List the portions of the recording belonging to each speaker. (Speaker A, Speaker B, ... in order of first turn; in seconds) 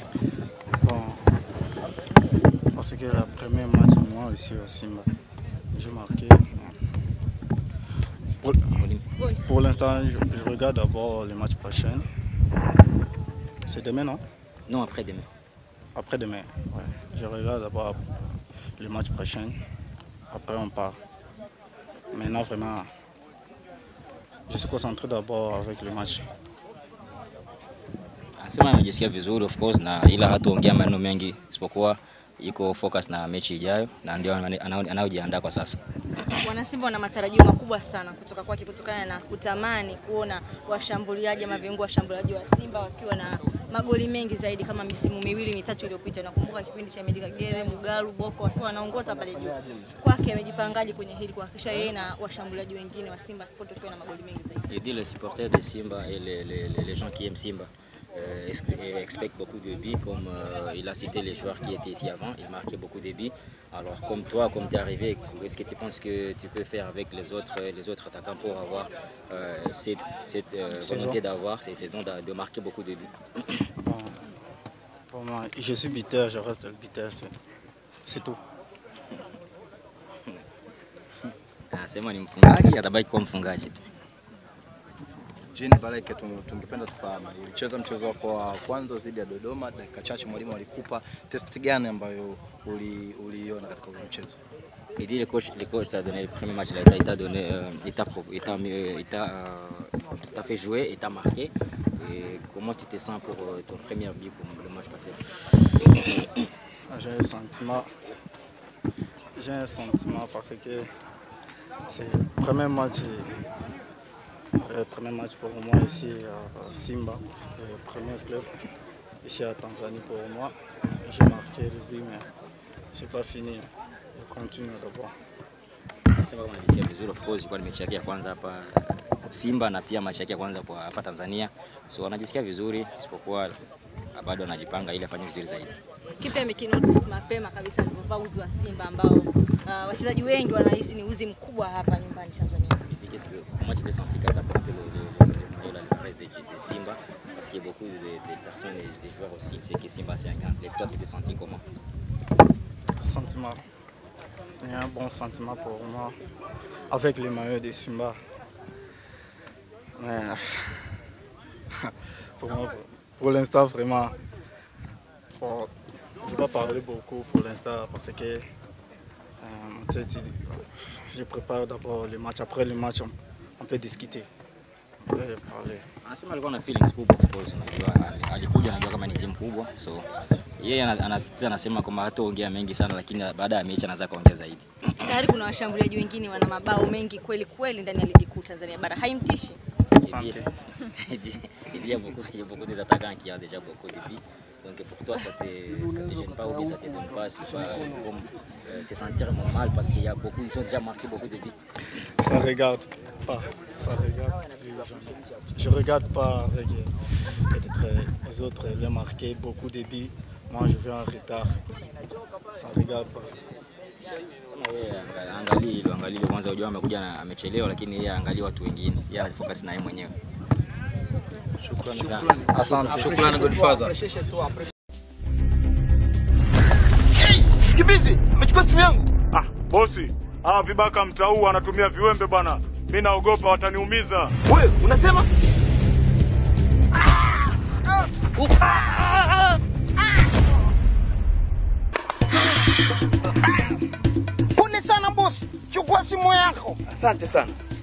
Speaker A: 0.8-1.2, 2.7-5.1, 5.7-6.8, 8.4-8.7, 9.4-12.1, 13.7-14.2, 15.9-18.0, 18.8-19.6, 20.3-21.0, 22.1-22.9, 24.5-26.2, 70.8-71.2, 73.8-74.2, 75.1-77.3, 78.0-78.4, 106.9-107.9, 109.3-110.9, 111.9-113.3, 114.6-118.5, 119.2-122.3, 122.9-125.1, 153.0-153.6, 154.6-156.2, 156.9-158.2, 160.0-160.9, 161.8-164.2, 165.4-168.4, 169.4-174.3, 175.1-175.8, 190.0-190.4, 202.0-206.9, 207.5-211.6, 212.5-213.4, 222.5-223.5
Speaker B: 8.6-9.0, 14.7-15.3, 28.4-35.8, 54.7-73.6, 81.7-83.8, 95.0-105.2, 105.8-106.3, 126.1-133.6, 134.1-135.8, 142.9-151.6, 176.0-185.1, 190.0-201.6, 214.5-220.1, 221.8-222.4, 246.9-247.5
Speaker C: 9.2-9.6, 36.3-54.7, 136.2-142.8, 185.0-189.6
Speaker D: 85.5-94.4, 221.6-224.0, 227.2-229.1, 234.4-235.3
Speaker E: 229.3-234.3
Speaker F: 238.7-239.1, 243.5-243.8, 244.5-246.8